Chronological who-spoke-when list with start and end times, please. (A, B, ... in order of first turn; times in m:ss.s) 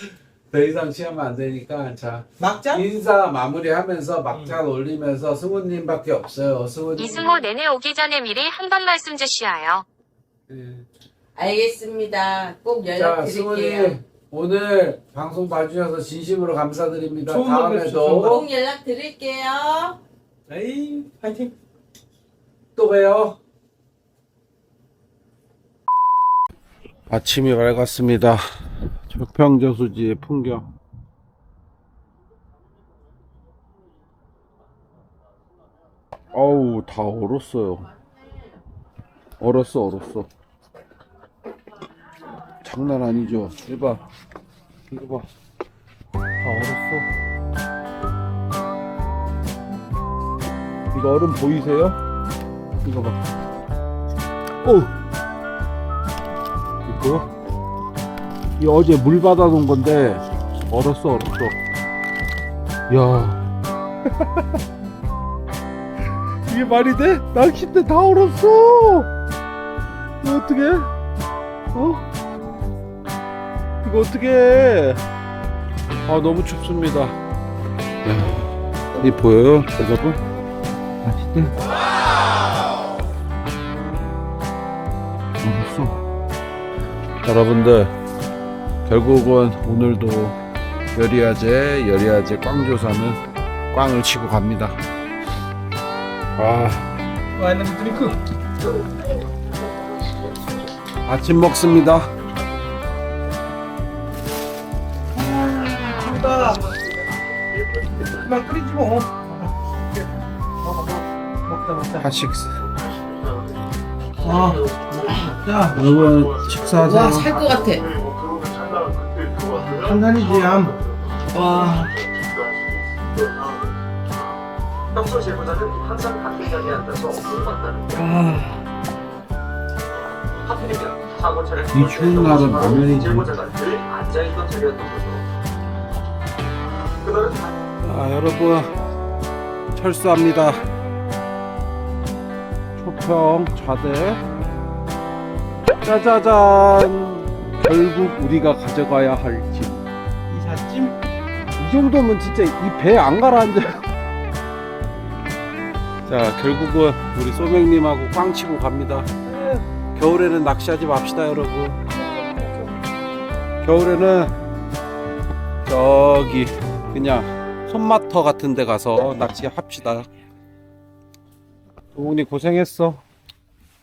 0:00.5-0:07.3 A
0:02.4-0:02.8 B
0:04.3-0:04.6 B
0:07.0-0:09.8 C
0:10.5-0:10.8 A
0:11.3-0:14.0 D
0:12.9-0:18.4 A
0:17.3-0:18.4 B
0:18.2-0:20.0 D
0:20.5-0:21.5 B
0:22.7-0:23.4 A
0:27.1-0:30.7 A
0:36.3-0:37.9 A
0:39.4-0:40.3 A
0:42.6-0:44.0 A
0:44.9-0:45.3 A
0:46.4-0:47.1 A
0:50.9-0:52.0 A
0:52.8-0:53.2 A
0:54.6-0:54.9 A
0:56.8-0:57.3 A
0:58.6-1:01.6 A
1:02.9-1:03.4 A
1:04.1-1:04.4 A
1:06.5-1:09.1 A
1:10.2-1:10.9 A
1:11.7-1:12.0 A
1:13.8-1:15.0 A
1:16.1-1:17.2 A
1:18.0-1:20.2 A
1:21.0-1:21.5 A
1:25.4-1:26.0 A
1:27.2-1:27.9 A
1:28.9-1:30.4 A
1:30.9-1:33.2 A
1:33.7-1:34.8 A
1:36.4-1:36.9 A
1:37.3-1:38.2 B
1:41.0-1:42.1 A
1:45.1-1:46.7 B
1:48.2-1:49.5 B
1:50.6-1:52.1 B
1:52.0-1:52.6 A
1:54.2-1:55.8 B
1:55.6-1:57.3 A
1:56.8-1:57.8 D
1:57.9-1:59.4 E
1:59.5-2:00.8 B
2:01.3-2:01.9 B
2:05.0-2:08.0 E
2:08.2-2:08.5 B
2:10.6-2:15.1 E
2:11.7-2:13.4 A
2:17.8-2:18.7 A
2:19.7-2:20.6 A
2:22.8-2:24.2 A
2:25.8-2:29.8 A
2:30.3-2:31.0 B
2:31.6-2:33.9 A
2:36.1-2:39.1 A
2:39.3-2:39.6 B
2:39.9-2:41.8 A
2:42.0-2:42.6 B
2:43.6-2:44.3 A
2:45.6-2:50.1 A
2:51.9-2:53.0 A